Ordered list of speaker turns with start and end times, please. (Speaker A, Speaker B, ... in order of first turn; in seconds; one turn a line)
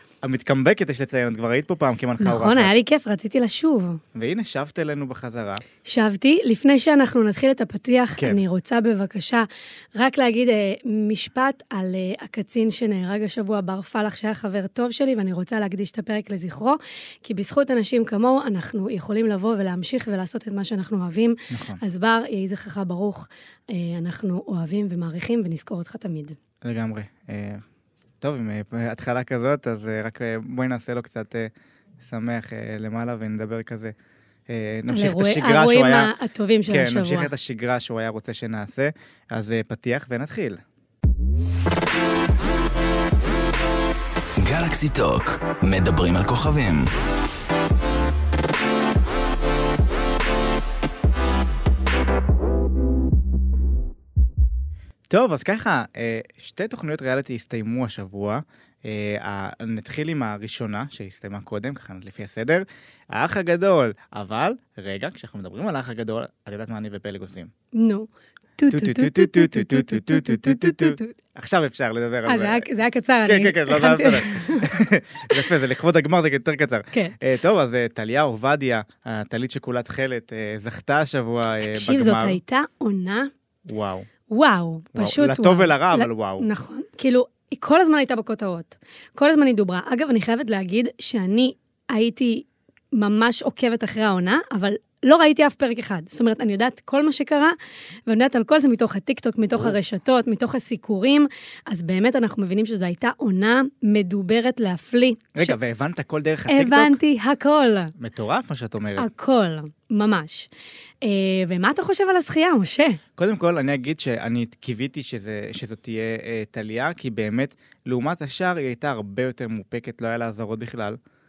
Speaker A: 0.2-2.7
Speaker B: 2.2-4.0
Speaker A: 4.1-5.6
Speaker B: 5.8-26.4
Speaker A: 8.2-8.4
Speaker A: 21.5-21.8
Speaker A: 26.6-27.6
Speaker A: 28.2-33.9
Speaker A: 34.5-36.1
Speaker B: 34.9-37.3
Speaker A: 36.7-40.6
Speaker C: 44.4-46.9
Speaker A: 55.1-67.5
Speaker B: 67.7-71.1
Speaker A: 68.7-72.7
Speaker B: 72.2-74.8
Speaker A: 73.2-82.4
Speaker B: 81.6-83.3
Speaker A: 83.7-84.1
Speaker B: 84.3-97.5
Speaker A: 84.9-86.5
Speaker B: 98.1-105.6
Speaker A: 105.3-107.0
Speaker B: 106.5-107.9
Speaker A: 108.0-109.1
Speaker B: 109.0-110.5
Speaker B: 111.0-113.0
Speaker A: 113.2-121.0